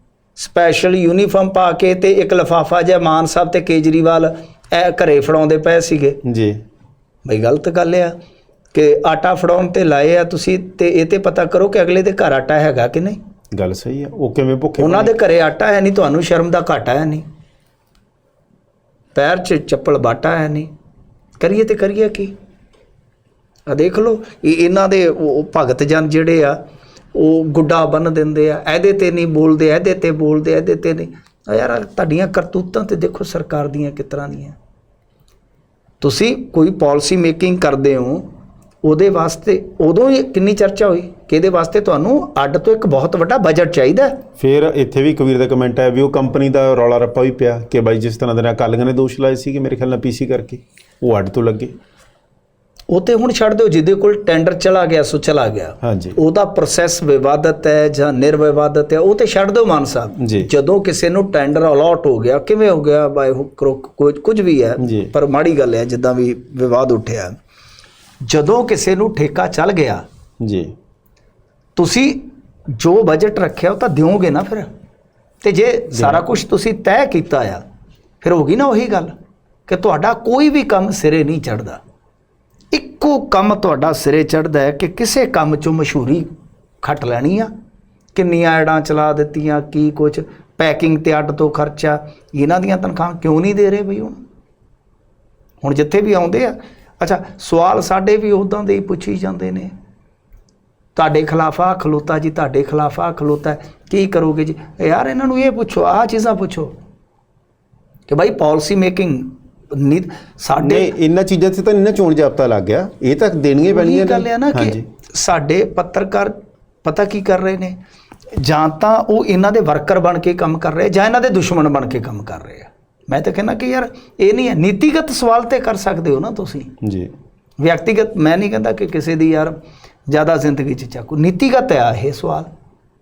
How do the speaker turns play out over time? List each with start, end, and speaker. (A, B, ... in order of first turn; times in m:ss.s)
0:00.4-0:06.2 A
0:06.2-0:06.6 B
0:07.3-0:08.2 A
0:08.7-0:13.2 A
0:13.5-0:15.1 B
0:14.8-0:17.2 A
0:19.2-0:20.7 A
0:21.4-0:22.3 A
0:23.7-0:26.6 A
0:27.1-0:34.6 A
0:36.0-0:38.2 A
0:38.8-0:44.2 A
0:44.4-0:51.7 B
0:52.9-1:07.4 A
0:55.8-0:56.2 B
1:00.2-1:00.5 B
1:04.8-1:05.1 B
1:08.2-1:10.0 A
1:10.4-1:10.7 B
1:11.8-1:14.7 A
1:15.4-1:17.6 A
1:15.9-1:16.2 B
1:18.2-1:19.2 A
1:19.7-1:21.8 A
1:22.7-1:26.3 A
1:26.8-1:27.5 A
1:28.2-1:34.2 A
1:35.6-1:39.7 A
1:41.0-1:46.7 A
1:48.1-1:50.9 A
1:50.6-1:54.9 B
1:53.7-1:57.8 A
1:58.3-2:06.7 A
2:06.8-2:07.1 B
2:07.6-2:12.5 A